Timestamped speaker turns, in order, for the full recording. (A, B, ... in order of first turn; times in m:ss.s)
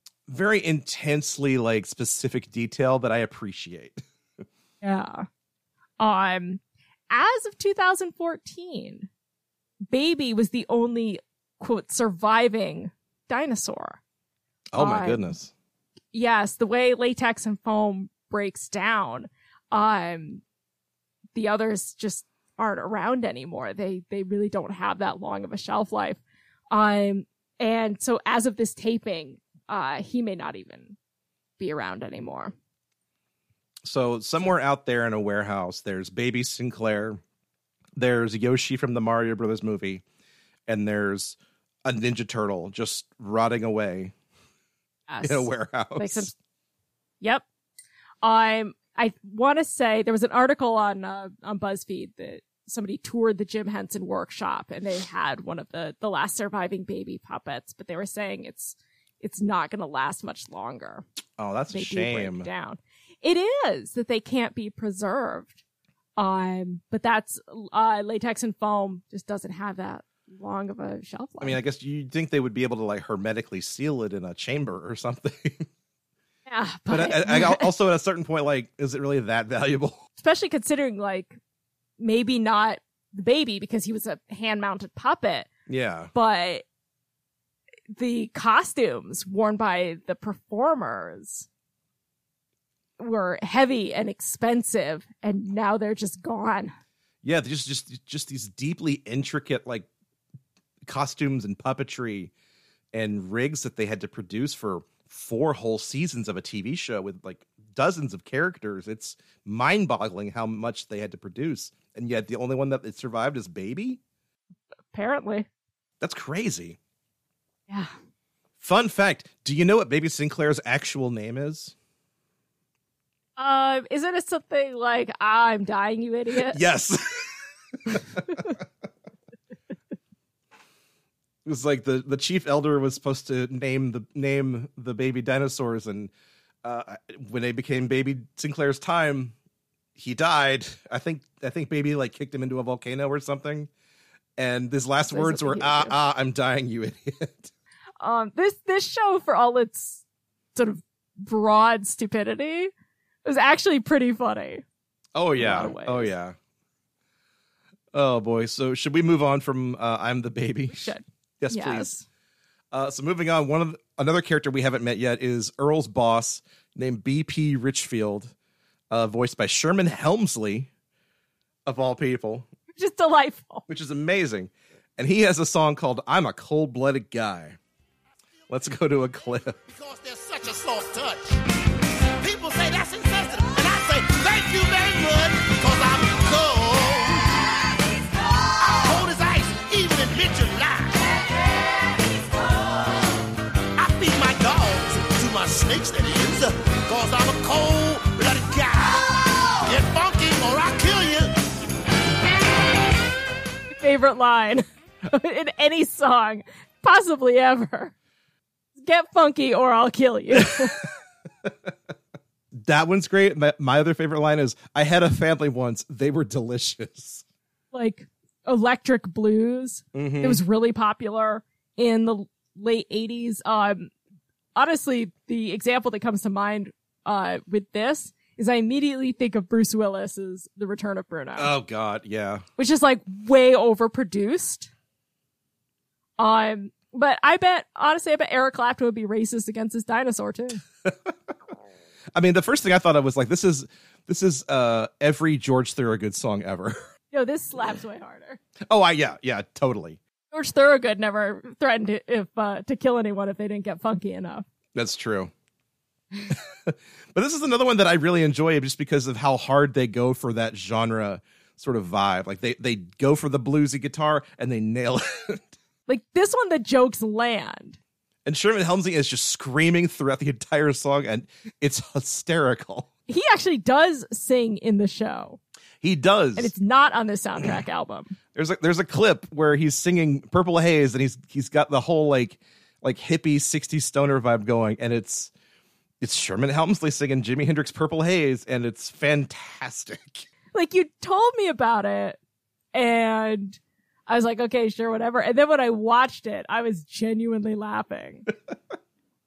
0:00.3-0:04.0 A
0:04.8-0:05.3 B
0:06.0-0:09.1 B
0:09.9-0:14.0 B
0:14.7-0:15.5 A
0:14.8-0:15.3 B
0:16.1-0:20.4 B
0:21.4-0:26.2 B
0:26.7-0:31.0 B
0:31.6-0:32.5 B
0:33.8-0:37.2 A
0:38.0-0:40.0 A
0:40.7-0:44.1 A
0:45.1-0:46.3 B
0:45.2-0:46.3 A
0:48.2-1:01.0 B
1:01.4-1:02.5 A
1:01.7-1:05.6 B
1:06.2-1:11.6 B
1:11.4-1:15.7 A
1:16.5-1:17.7 B
1:16.9-1:20.0 A
1:20.2-1:21.4 B
1:22.0-1:25.5 B
1:25.7-1:26.1 A
1:26.1-1:26.6 B
1:27.9-1:31.5 B
1:33.0-1:36.7 B
1:37.2-1:39.9 A
1:40.8-1:42.3 A
1:42.9-1:54.0 A
1:54.9-1:55.5 B
1:56.0-1:56.8 A
1:58.6-2:01.7 A
2:03.4-2:06.6 B
2:06.4-2:08.4 A
2:11.4-2:16.1 A
2:16.6-2:19.4 A
2:20.0-2:23.7 A
2:24.4-2:27.5 A
2:25.1-2:26.0 B
2:28.0-2:30.0 B
2:30.6-2:32.7 B
2:33.2-2:34.6 B
2:35.2-2:36.4 A
2:35.4-2:36.1 B
2:37.9-2:42.0 A
2:40.7-2:42.0 B
2:42.7-2:48.3 A
2:48.9-2:50.7 A
2:51.7-2:52.5 A
2:52.7-2:53.7 B
2:53.7-2:57.6 A
2:58.5-2:59.6 A
2:59.7-3:01.4 C
3:02.2-3:07.4 C
3:08.6-3:11.1 C
3:13.8-3:21.3 C
3:23.7-3:27.9 B
3:28.8-3:30.9 B
3:30.4-3:30.8 A
3:32.5-3:37.2 A
3:37.7-3:43.9 B
3:39.9-3:40.4 A
3:44.6-3:51.5 B
3:51.4-3:52.4 A
3:52.6-3:54.7 B
3:56.2-4:00.6 B
4:00.9-4:01.1 A
4:02.2-4:06.8 A
4:07.1-4:08.4 B
4:08.7-4:10.0 A
4:10.3-4:14.4 B
4:14.8-4:15.3 A
4:16.3-4:25.5 A
4:25.9-4:27.8 B
4:28.2-4:32.9 A
4:33.1-4:35.4 B
4:35.8-4:36.5 A
4:36.4-4:38.2 B
4:38.3-4:45.3 A
4:46.0-4:50.3 A
4:50.5-4:52.2 B
4:52.7-4:58.3 B